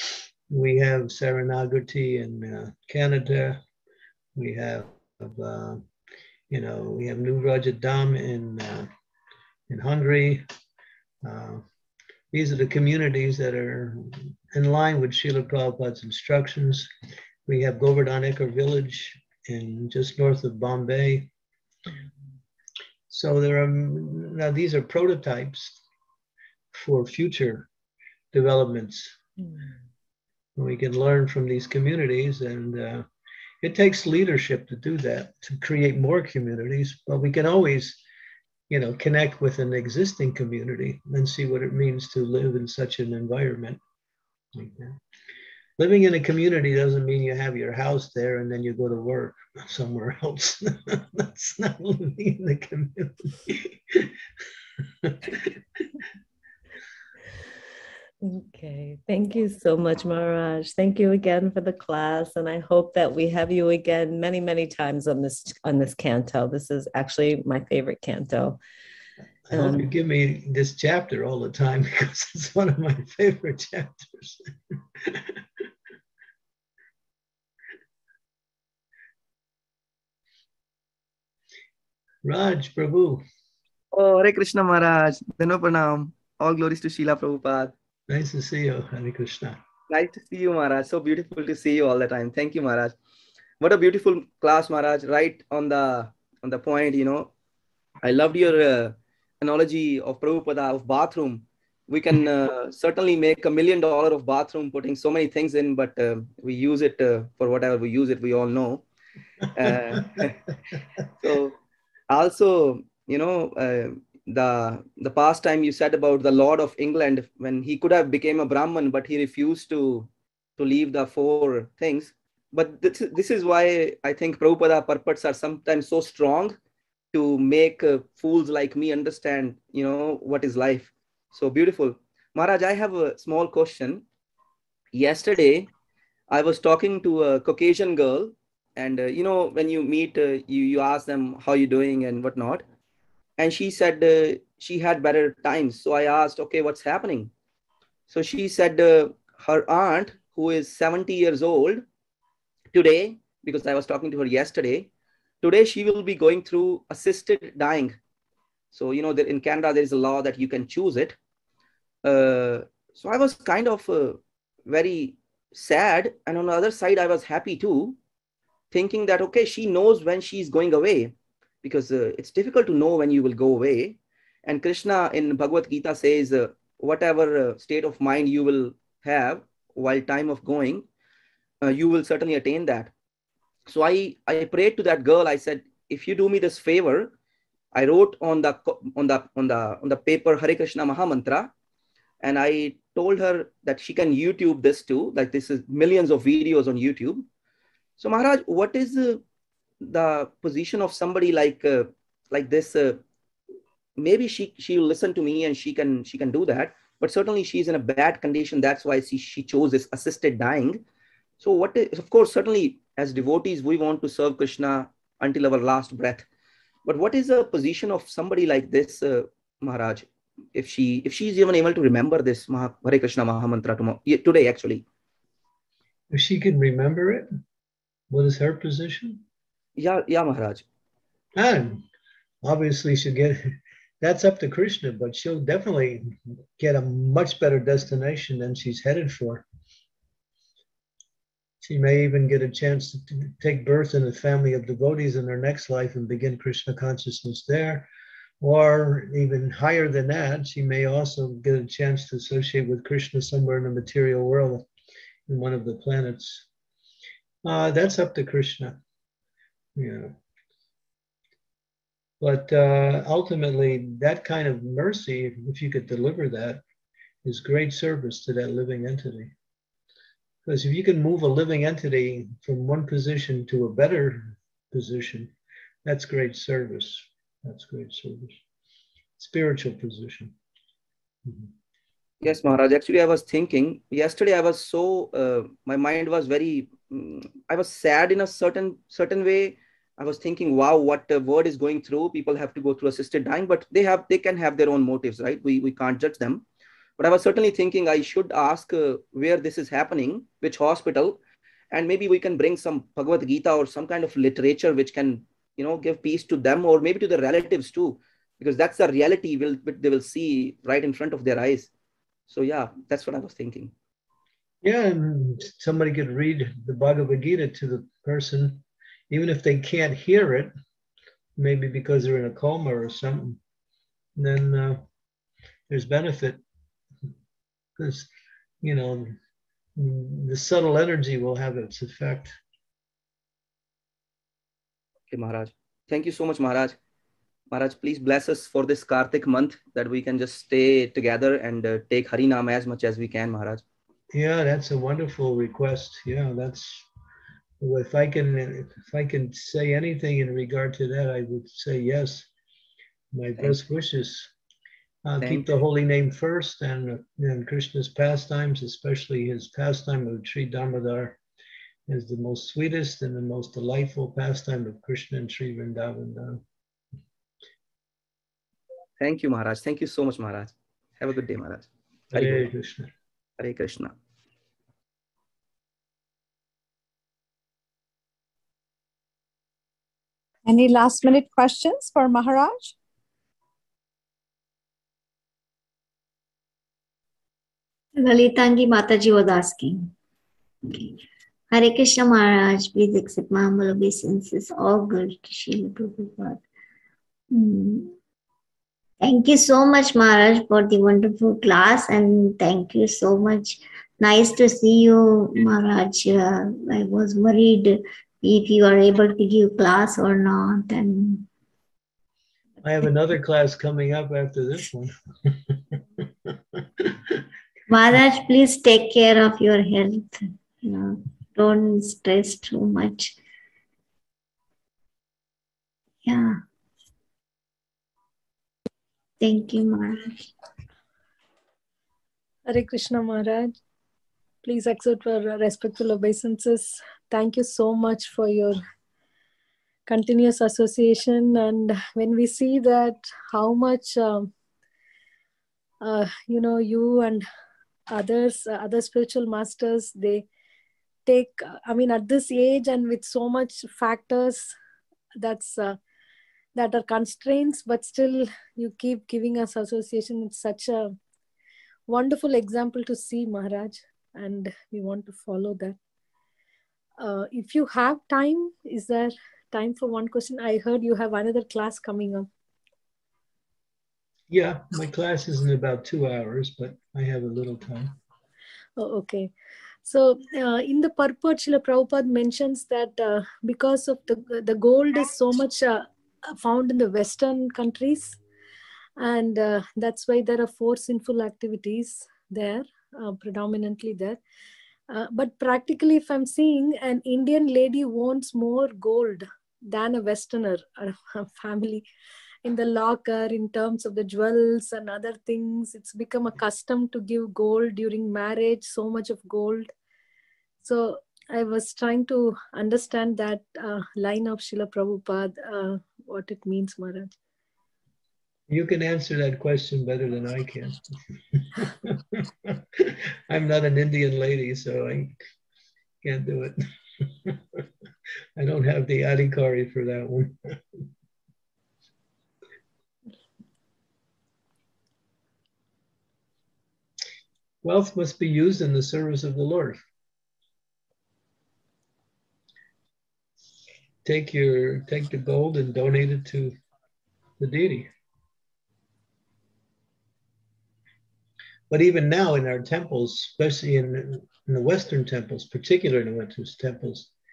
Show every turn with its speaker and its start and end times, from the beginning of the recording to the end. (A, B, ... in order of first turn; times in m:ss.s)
0:00.5-0:03.6 A
0:04.4-0:05.8 A
0:06.5-0:08.9 A
0:09.7-0:10.4 A
0:11.2-0:11.6 A
0:12.3-0:16.9 A
0:17.5-0:21.3 A
0:23.1-0:25.8 A
0:26.7-0:27.7 A
0:28.3-0:29.2 A
0:30.6-0:33.0 A
0:33.6-0:38.0 A
0:38.7-0:43.8 A
0:44.6-0:45.0 A
0:45.8-0:54.1 A
0:55.0-0:55.5 A
0:58.2-1:08.6 B
1:09.5-1:14.4 A
1:09.5-1:09.9 B
1:22.2-1:23.2 A
1:23.9-1:27.7 C
1:28.1-1:29.6 A
1:29.9-1:33.0 C
1:33.6-1:37.3 C
1:38.0-1:48.9 C
1:49.5-1:50.4 C
1:51.2-1:51.6 C
1:52.1-2:06.6 C
2:07.1-2:14.0 C
2:14.9-2:15.7 C
2:16.3-2:22.6 C
2:23.4-2:27.3 C
2:28.1-2:31.8 C
2:32.7-2:34.9 C
2:35.4-2:38.0 C
2:38.7-2:41.2 C
2:42.0-2:48.0 C
2:48.7-3:00.9 C
3:01.6-3:02.9 C
3:03.7-3:07.1 C
3:07.7-3:11.5 C
3:12.2-3:17.3 C
3:18.0-3:19.2 C
3:19.8-3:23.0 C
3:24.0-3:30.8 C
3:31.4-3:36.3 C
3:36.8-3:44.8 C
3:46.1-3:47.3 A
3:48.1-3:49.2 A
3:49.8-3:50.6 C
3:51.4-3:51.8 A
3:52.4-3:59.4 A
4:01.6-4:07.9 A
4:08.4-4:14.7 A
4:15.3-4:16.5 A
4:17.4-4:18.8 A
4:19.8-4:20.2 A
4:22.2-4:26.6 A
4:27.2-4:29.3 A
4:30.5-4:35.3 A
4:35.8-4:38.4 A
4:39.2-4:40.3 A
4:41.3-4:41.5 A
4:42.2-4:56.4 C
4:57.0-5:01.2 C
5:01.7-5:11.7 C
5:12.3-5:13.7 C
5:14.6-5:20.5 A
5:21.4-5:23.4 A
5:24.2-5:24.8 A
5:25.7-5:26.4 A
5:27.8-5:28.1 A
5:28.6-5:29.2 A
5:29.8-5:32.4 A
5:35.1-5:36.8 C
5:37.5-5:43.6 C
5:44.1-5:46.9 A
5:47.6-5:52.3 A
5:53.1-5:54.3 A
5:55.0-6:01.2 A
6:01.9-6:06.4 A
6:09.0-6:12.5 C
6:12.1-6:12.9 A
6:13.4-6:14.0 C
6:20.5-6:22.8 D
6:28.0-6:29.9 E
6:30.7-6:36.4 E
6:37.3-6:38.0 E
6:39.0-6:51.3 E
6:52.6-6:55.6 A
6:57.7-7:03.2 E
7:06.0-7:06.4 E
7:09.2-7:10.3 E
7:12.5-7:13.6 F
7:14.4-7:18.6 F
7:19.9-7:24.3 F
7:25.8-7:27.2 F
7:27.9-7:30.3 F
7:31.1-7:34.5 F
7:35.2-7:35.8 F
7:36.6-7:41.0 F
7:41.9-7:45.8 F
7:47.0-7:52.3 F
7:54.3-7:58.0 A
7:58.8-7:59.3 F
7:59.8-8:08.2 F
8:09.0-8:14.2 F
8:14.9-8:21.8 F
8:22.4-8:29.7 F
8:30.6-8:37.1 F
8:38.5-8:40.8 A
8:41.3-8:45.2 A
8:46.0-8:47.4 A
8:48.4-8:50.8 A
8:57.6-8:59.8 A
9:04.0-9:06.5 A
9:07.4-9:07.9 A
9:11.7-9:17.1 A